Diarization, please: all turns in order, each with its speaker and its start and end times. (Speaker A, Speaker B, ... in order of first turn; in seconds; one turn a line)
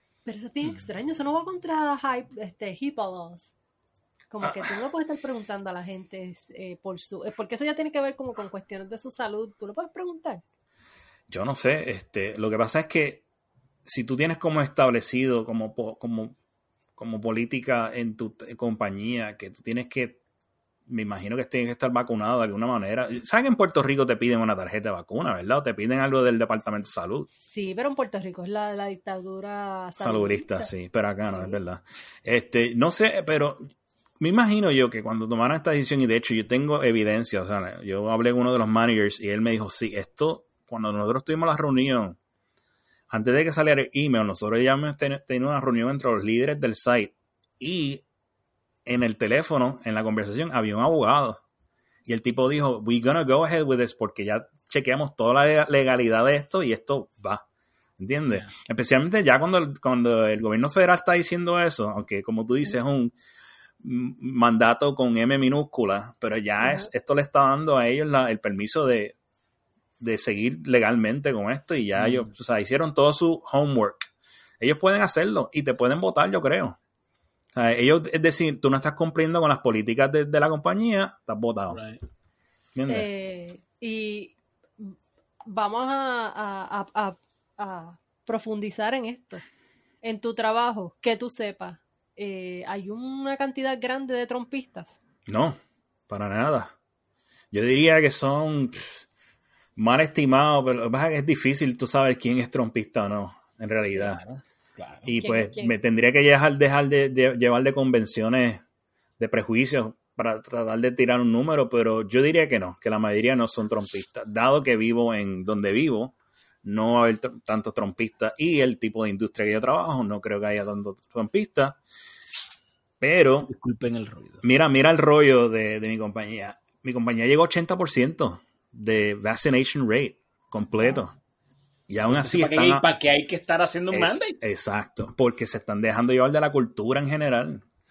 Speaker A: 0.3-3.5
Speaker A: 4.3-10.4
Speaker B: 11.3-13.2
Speaker B: 13.9-16.4
Speaker B: 17.0-20.2
Speaker B: 20.9-27.3
Speaker A: 27.3-30.7
Speaker B: 30.0-33.6
Speaker A: 31.2-31.6
Speaker B: 34.2-42.2
Speaker B: 43.1-48.0
Speaker B: 48.9-51.4
Speaker B: 52.1-57.5
Speaker B: 58.0-63.1
Speaker C: 58.3-58.5
Speaker B: 63.8-69.2
Speaker B: 70.0-74.1
Speaker C: 72.0-72.3
Speaker B: 74.6-76.8
Speaker B: 77.5-81.8
Speaker C: 81.7-82.0
Speaker B: 82.8-83.1
Speaker A: 82.9-89.4
Speaker A: 90.0-95.0
Speaker B: 95.3-95.6
Speaker B: 96.1-96.7
Speaker B: 97.5-99.1
Speaker B: 99.8-104.2
Speaker C: 104.0-105.1
Speaker B: 105.0-108.6
Speaker A: 105.2-105.7
Speaker B: 109.2-121.8
Speaker B: 123.0-123.5
Speaker C: 123.5-124.4
Speaker B: 124.4-131.1
Speaker B: 131.9-132.9
Speaker C: 132.1-134.4
Speaker B: 133.9-137.6